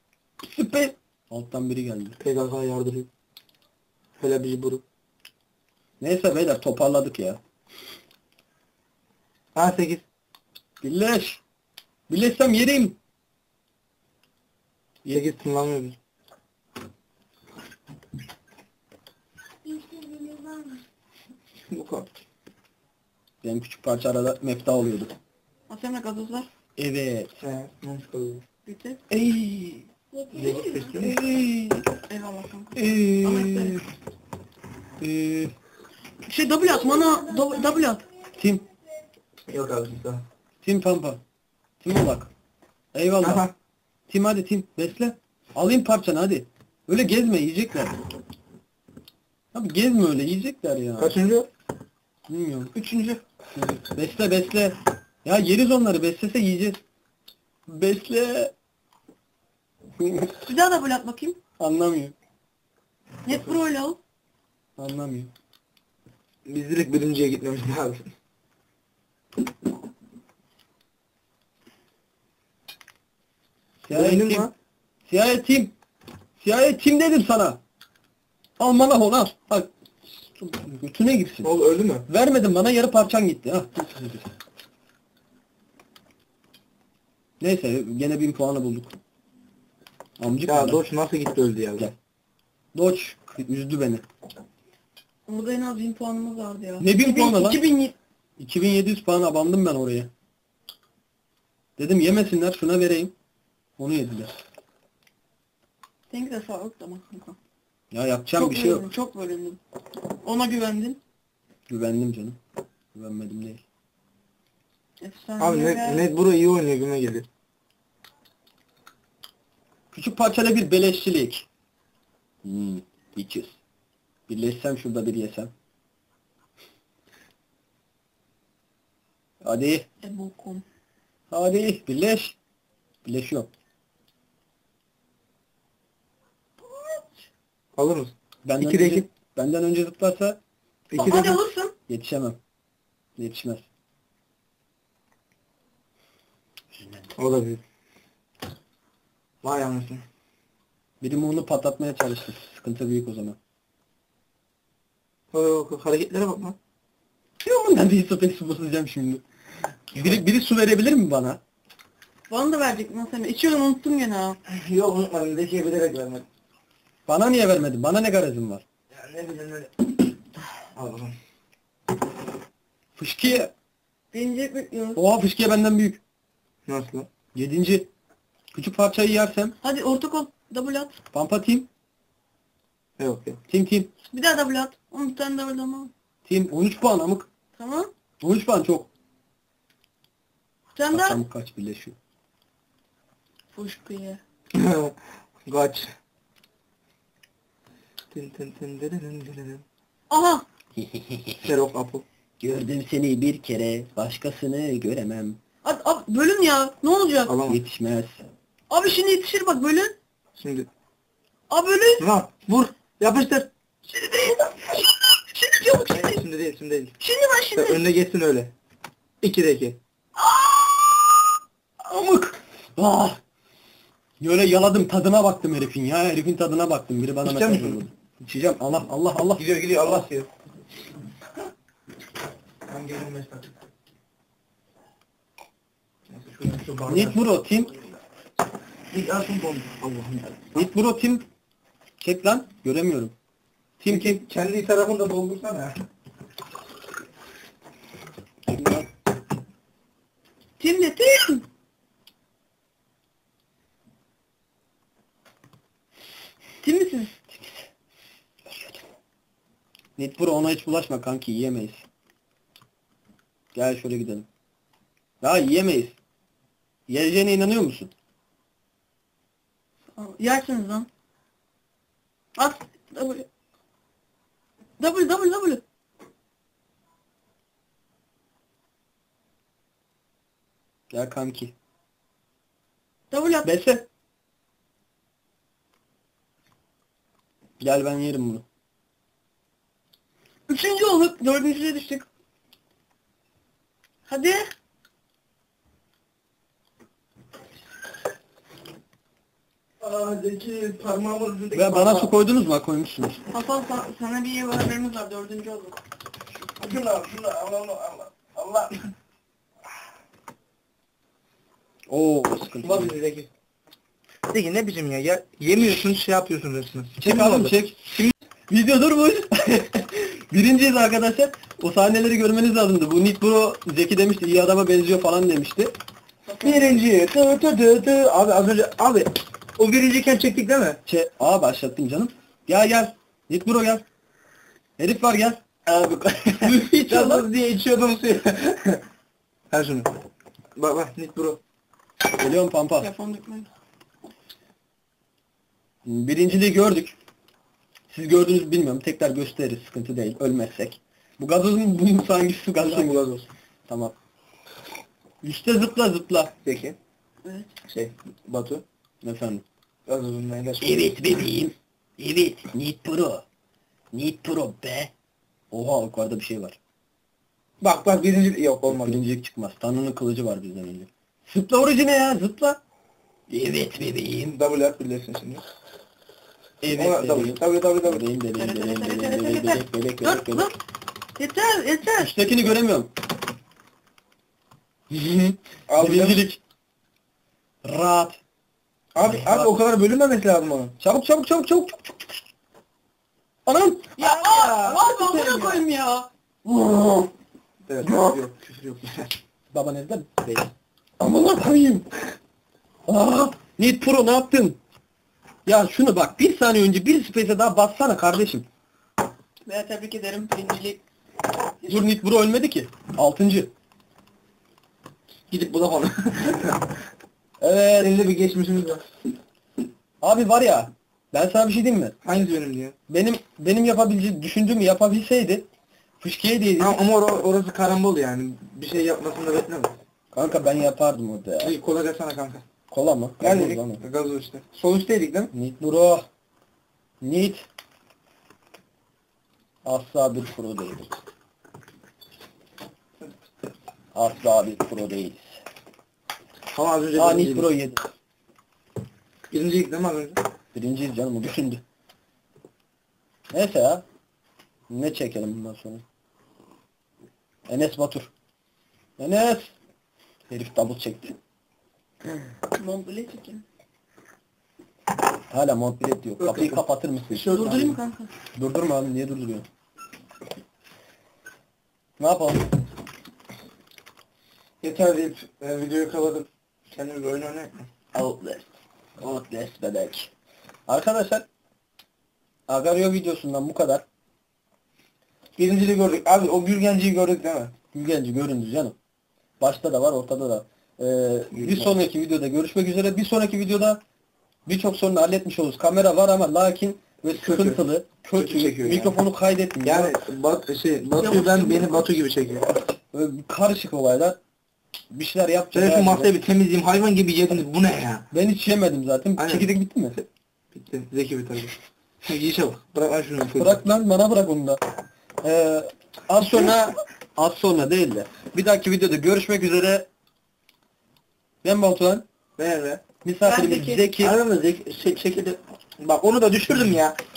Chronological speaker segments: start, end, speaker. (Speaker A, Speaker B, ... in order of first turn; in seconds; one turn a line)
Speaker A: 0.4-2.2
Speaker B: 2.2-3.1
Speaker B: 4.2-4.8
Speaker A: 6.0-7.4
Speaker B: 9.6-10.1
Speaker A: 10.8-11.4
Speaker A: 12.1-13.0
Speaker B: 15.1-16.0
Speaker C: 19.6-20.8
Speaker B: 21.7-22.1
Speaker A: 23.4-25.1
Speaker C: 25.7-26.5
Speaker A: 26.8-27.3
Speaker B: 27.4-28.4
Speaker C: 28.6-29.0
Speaker A: 29.1-29.8
Speaker C: 30.1-31.0
Speaker B: 30.3-31.2
Speaker A: 31.0-31.9
Speaker C: 32.1-33.8
Speaker A: 32.8-33.4
Speaker B: 32.9-33.7
Speaker A: 35.0-35.5
Speaker C: 36.2-38.0
Speaker A: 38.4-38.6
Speaker B: 39.5-40.2
Speaker A: 40.6-41.2
Speaker A: 41.8-42.3
Speaker A: 42.9-43.4
Speaker B: 43.2-43.5
Speaker A: 44.1-48.0
Speaker A: 49.5-51.2
Speaker B: 51.0-51.5
Speaker A: 52.3-52.7
Speaker B: 52.8-53.2
Speaker A: 53.5-56.8
Speaker A: 57.7-58.5
Speaker A: 60.0-60.3
Speaker C: 60.5-61.4
Speaker A: 61.6-62.1
Speaker C: 63.2-64.0
Speaker A: 64.8-65.3
Speaker B: 66.5-68.1
Speaker A: 73.8-74.5
Speaker B: 73.9-74.5
Speaker A: 75.1-75.7
Speaker A: 76.4-77.6
Speaker A: 78.6-81.5
Speaker B: 81.4-82.1
Speaker A: 82.1-84.3
Speaker A: 87.4-89.0
Speaker A: 90.2-90.8
Speaker B: 90.5-91.9
Speaker A: 92.7-94.1
Speaker C: 95.3-97.9
Speaker A: 96.8-97.6
Speaker A: 98.4-100.1
Speaker A: 101.8-103.1
Speaker A: 103.8-104.3
Speaker C: 106.1-107.4
Speaker A: 107.9-108.9
Speaker C: 108.4-109.6
Speaker C: 110.1-111.0
Speaker A: 111.7-112.4
Speaker A: 112.9-113.6
Speaker C: 115.0-116.0
Speaker B: 115.4-117.2
Speaker A: 119.9-121.5
Speaker A: 122.4-123.6
Speaker A: 124.3-125.5
Speaker A: 129.4-129.9
Speaker C: 130.0-130.6
Speaker A: 131.3-132.4
Speaker A: 133.1-133.5
Speaker C: 136.7-137.0
Speaker B: 137.8-139.1
Speaker A: 138.4-140.4
Speaker B: 140.9-141.4
Speaker C: 140.9-141.7
Speaker A: 141.9-142.4
Speaker A: 143.2-143.6
Speaker A: 146.7-147.1
Speaker B: 147.2-147.6
Speaker B: 149.4-150.1
Speaker A: 151.0-153.4
Speaker B: 155.3-156.6
Speaker A: 157.4-159.2
Speaker A: 159.9-161.4
Speaker C: 162.3-164.4
Speaker B: 164.5-166.2
Speaker A: 167.1-168.6
Speaker B: 168.9-170.0
Speaker B: 170.7-171.1
Speaker A: 172.9-173.5
Speaker C: 174.1-175.0
Speaker A: 174.9-176.0
Speaker B: 176.7-177.1
Speaker A: 177.3-177.9
Speaker A: 178.5-179.6
Speaker C: 179.6-181.0
Speaker A: 181.1-181.7
Speaker B: 183.0-183.4
Speaker A: 183.5-183.9
Speaker C: 184.1-185.9
Speaker A: 186.2-187.3
Speaker C: 187.6-187.9
Speaker A: 188.2-188.9
Speaker C: 190.8-191.2
Speaker A: 190.9-191.9
Speaker C: 193.5-194.2
Speaker B: 194.5-195.9
Speaker B: 198.1-199.6
Speaker C: 200.1-200.4
Speaker A: 200.8-201.5
Speaker B: 201.4-202.1
Speaker A: 202.4-205.4
Speaker C: 205.6-207.4
Speaker B: 207.3-207.6
Speaker A: 207.4-208.2
Speaker C: 208.7-209.9
Speaker B: 210.4-210.7
Speaker C: 211.5-212.0
Speaker B: 212.0-213.5
Speaker C: 213.9-216.2
Speaker B: 215.9-216.9
Speaker C: 217.0-217.8
Speaker B: 217.6-218.5
Speaker B: 219.2-219.8
Speaker C: 220.2-221.0
Speaker A: 221.8-223.2
Speaker A: 224.2-230.1
Speaker B: 227.2-227.8
Speaker B: 229.4-230.3
Speaker B: 232.7-233.5
Speaker B: 236.1-237.2
Speaker A: 236.9-237.7
Speaker B: 238.9-240.5
Speaker A: 240.6-241.2
Speaker A: 242.0-243.1
Speaker A: 243.8-244.2
Speaker B: 243.9-245.8
Speaker A: 248.5-248.9
Speaker C: 250.6-251.4
Speaker C: 256.6-257.3
Speaker A: 258.4-258.8
Speaker A: 260.0-261.9
Speaker A: 263.5-264.3
Speaker A: 265.2-266.0
Speaker A: 266.9-267.9
Speaker C: 269.9-270.9
Speaker C: 272.4-273.2
Speaker C: 274.8-275.6
Speaker A: 280.9-281.5
Speaker C: 283.1-283.5
Speaker A: 283.4-283.9
Speaker A: 287.6-288.4
Speaker C: 290.5-292.1
Speaker C: 294.1-294.5
Speaker B: 299.8-302.1
Speaker A: 301.5-303.2
Speaker C: 303.3-305.8
Speaker B: 306.6-308.9
Speaker A: 311.9-312.9
Speaker B: 312.6-313.3
Speaker B: 314.3-318.1
Speaker A: 317.0-317.8
Speaker A: 318.5-325.7
Speaker C: 326.3-326.8
Speaker B: 326.4-330.8
Speaker A: 330.9-333.8
Speaker A: 334.8-335.7
Speaker B: 335.7-338.9
Speaker A: 336.4-337.3
Speaker B: 339.5-339.9
Speaker B: 340.6-341.4
Speaker A: 342.2-342.9
Speaker C: 342.8-343.5
Speaker A: 345.8-346.9
Speaker A: 347.9-353.0
Speaker B: 352.6-353.2
Speaker A: 353.7-353.9
Speaker A: 355.2-356.3
Speaker B: 356.4-356.8
Speaker C: 357.2-357.5
Speaker B: 357.6-358.6
Speaker A: 359.0-359.4
Speaker B: 359.9-360.8
Speaker A: 360.6-363.2
Speaker A: 363.9-364.9
Speaker A: 365.5-366.6
Speaker B: 367.6-369.0
Speaker A: 368.7-372.6
Speaker A: 373.3-374.4
Speaker B: 374.2-375.4
Speaker A: 376.6-380.5
Speaker B: 376.7-378.1
Speaker C: 378.4-380.6
Speaker C: 381.2-382.1
Speaker A: 382.0-382.9
Speaker A: 384.9-386.4
Speaker B: 385.7-386.2
Speaker A: 387.6-388.2
Speaker B: 388.9-390.7
Speaker A: 389.1-389.5
Speaker A: 390.8-392.2
Speaker A: 393.4-397.1
Speaker C: 394.0-395.6
Speaker B: 394.2-394.6
Speaker B: 397.7-399.1
Speaker A: 397.8-398.2
Speaker A: 399.5-401.9
Speaker A: 402.9-404.6
Speaker A: 405.4-408.4
Speaker C: 409.4-410.8
Speaker A: 411.7-413.5
Speaker B: 415.3-416.7
Speaker A: 417.4-418.1
Speaker B: 417.8-418.9
Speaker A: 420.0-421.9
Speaker B: 422.0-422.7
Speaker A: 422.9-425.5
Speaker A: 426.0-426.8
Speaker B: 426.6-429.7
Speaker A: 430.1-431.6
Speaker B: 431.4-432.4
Speaker A: 432.7-433.8
Speaker B: 433.2-435.3
Speaker A: 435.3-436.1
Speaker A: 437.0-437.4
Speaker A: 439.6-440.9
Speaker A: 443.9-445.4
Speaker B: 446.5-447.5
Speaker A: 446.9-447.9
Speaker B: 449.3-450.2
Speaker A: 450.5-451.6
Speaker A: 453.3-453.8
Speaker A: 454.7-455.8
Speaker A: 457.5-458.1
Speaker A: 459.0-459.5
Speaker A: 460.3-461.1
Speaker C: 462.6-463.4
Speaker A: 465.3-467.8
Speaker B: 466.2-466.6
Speaker C: 467.2-468.1
Speaker A: 468.4-469.4
Speaker A: 472.0-472.5
Speaker B: 474.6-477.7
Speaker A: 477.9-478.5
Speaker A: 479.0-480.1
Speaker A: 480.7-481.3
Speaker A: 482.5-483.8
Speaker B: 485.4-487.5
Speaker A: 487.7-488.7
Speaker A: 489.4-493.8
Speaker B: 491.3-491.7
Speaker A: 494.4-499.9
Speaker B: 497.1-497.6
Speaker B: 498.1-498.9
Speaker B: 499.6-502.6
Speaker C: 501.0-501.6
Speaker A: 502.9-504.2
Speaker A: 504.9-506.1
Speaker B: 505.5-508.1
Speaker A: 508.1-510.0
Speaker B: 509.2-510.0
Speaker B: 510.5-513.6
Speaker A: 513.4-514.6
Speaker A: 515.2-519.9
Speaker A: 521.4-522.0
Speaker B: 522.4-522.8
Speaker A: 523.0-524.2
Speaker C: 523.2-523.8
Speaker B: 524.0-527.0